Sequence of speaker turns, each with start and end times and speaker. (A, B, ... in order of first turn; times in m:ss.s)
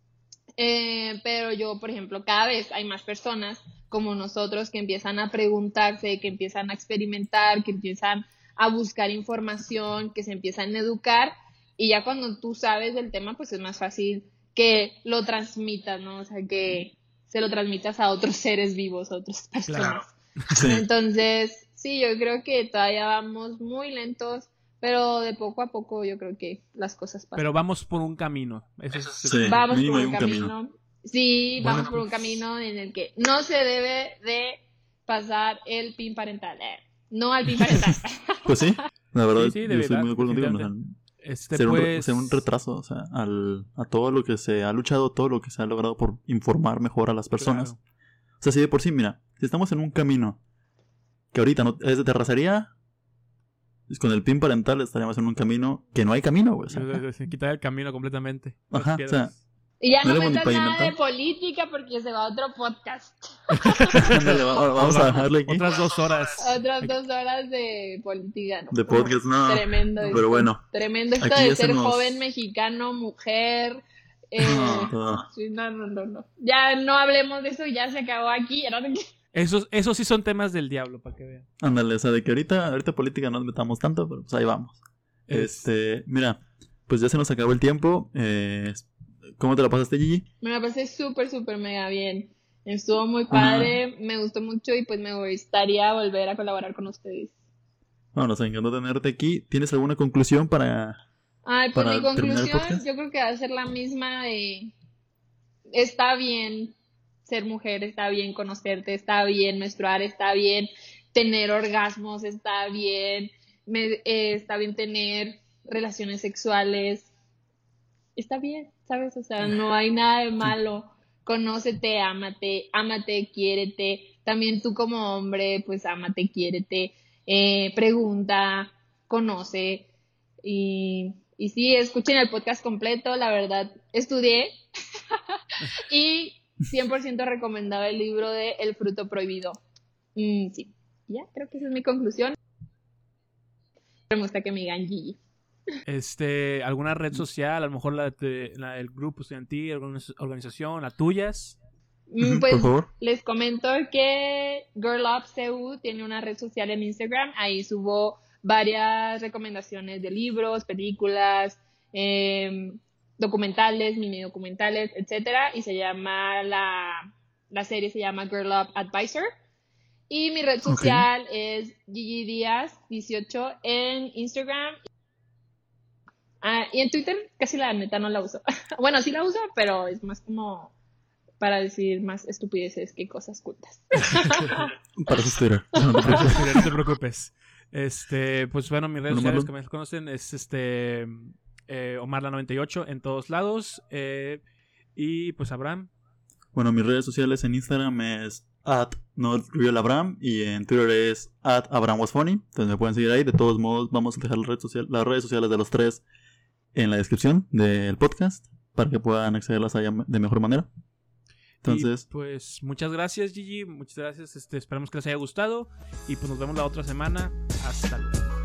0:00.6-0:27.4 A
0:19.6-0:20.6 B
0:20.5-0:20.8 C
0:27.4-0:29.6 B
0:29.2-0:30.5 C
0:29.3-0:38.8 A
0:31.6-0:32.1 B
0:38.4-0:41.0 C
0:39.3-0:42.4 B
0:41.5-0:47.7 C
0:47.4-0:47.8 B
0:48.4-0:50.4 C
0:51.3-0:52.7 C
0:53.9-0:57.0 C
0:56.7-0:59.4 B
0:58.7-0:59.3 C
0:59.8-1:04.2 A
1:00.0-1:00.9 C
1:03.5-1:06.9 B
1:03.9-1:05.6 C
1:06.4-1:13.8 A
1:08.7-1:10.6 C
1:11.2-1:12.2 C
1:14.3-1:19.0 A
1:14.4-1:15.2 C
1:19.3-1:21.5 B
1:21.6-1:24.8 C
1:25.3-1:25.7 B
1:25.3-1:30.2 C
1:30.4-1:37.3 A
1:33.3-1:33.8 C
1:38.1-1:41.0 C
1:41.4-1:44.7 A
1:41.7-1:42.8 C
1:45.7-1:57.1 A
1:58.2-2:09.9 A
2:10.4-2:14.5 A
2:15.1-2:19.6 A
2:20.2-2:22.4 A
2:24.1-2:25.2 A
2:25.8-2:31.6 B
2:32.1-2:49.3 A
2:32.2-2:32.9 C
2:50.1-2:54.8 A
2:50.6-2:51.1 C
2:56.4-3:00.7 A
3:01.4-3:04.7 A
3:04.2-3:04.5 B
3:05.0-3:06.6 C
3:05.8-3:06.2 A
3:06.0-3:14.4 B
3:09.1-3:09.5 C
3:14.9-3:15.9 B
3:16.5-3:26.0 C
3:26.7-3:30.7 C
3:31.6-3:32.0 C
3:31.6-3:38.3 B